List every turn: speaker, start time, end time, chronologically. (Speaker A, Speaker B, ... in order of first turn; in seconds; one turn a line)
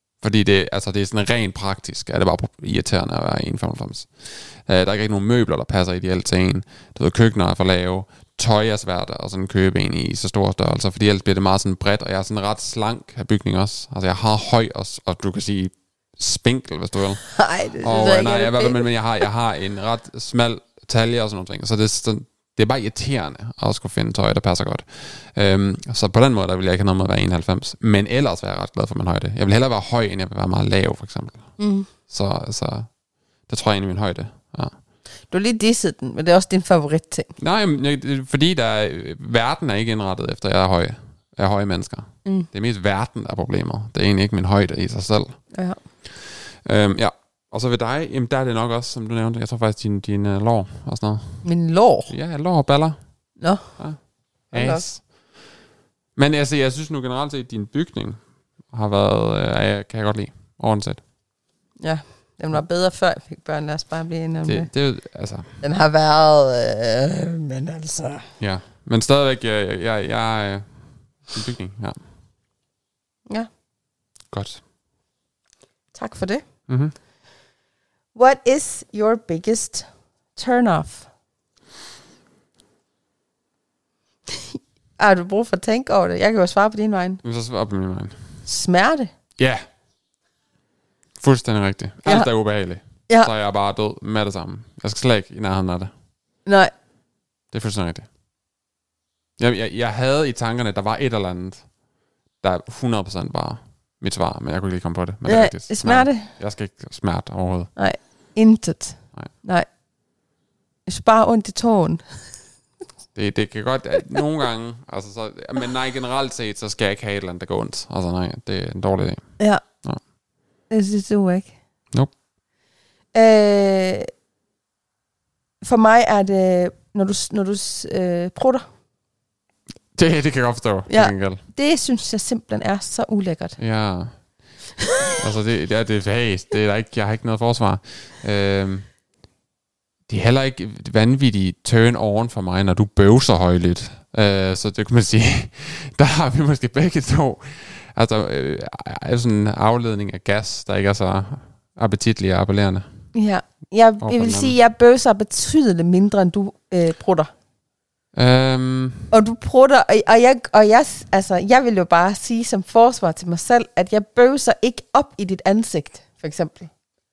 Speaker A: 0.2-17.2
Speaker B: 17.2-18.9
Speaker A: 17.8-31.5
Speaker B: 31.6-31.9
Speaker A: 32.1-32.9
Speaker A: 33.5-34.8
Speaker B: 35.3-37.3
Speaker A: 37.4-45.4
Speaker B: 45.5-45.8
Speaker A: 46.1-51.5
Speaker B: 51.4-52.1
Speaker A: 52.1-53.0
Speaker B: 53.4-53.7
Speaker A: 54.5-55.0
Speaker B: 54.5-54.9
Speaker A: 56.2-58.2
Speaker A: 58.7-61.0
Speaker B: 61.8-64.7
Speaker A: 64.5-65.5
Speaker B: 65.6-68.3
Speaker A: 68.4-70.7
Speaker A: 71.3-72.0
Speaker A: 74.3-74.6
Speaker B: 75.9-76.5
Speaker A: 76.7-76.9
Speaker B: 78.1-81.1
Speaker B: 85.0-87.2
Speaker A: 87.2-88.2
Speaker B: 88.5-89.1
Speaker A: 89.4-89.6
Speaker A: 91.2-95.9
Speaker B: 96.5-96.7
Speaker A: 97.5-98.1
Speaker A: 99.4-101.7
Speaker A: 102.4-107.7
Speaker B: 105.3-106.3
Speaker B: 107.8-109.7
Speaker B: 110.9-112.0
Speaker A: 113.2-119.2
Speaker B: 120.7-121.5
Speaker B: 123.1-124.1
Speaker B: 125.6-128.7
Speaker A: 129.9-131.4
Speaker B: 130.9-133.6
Speaker A: 133.6-134.1
Speaker A: 135.2-138.9
Speaker A: 140.1-152.9
Speaker B: 153.1-157.3
Speaker A: 154.0-154.6
Speaker A: 158.1-159.1
Speaker B: 159.1-166.7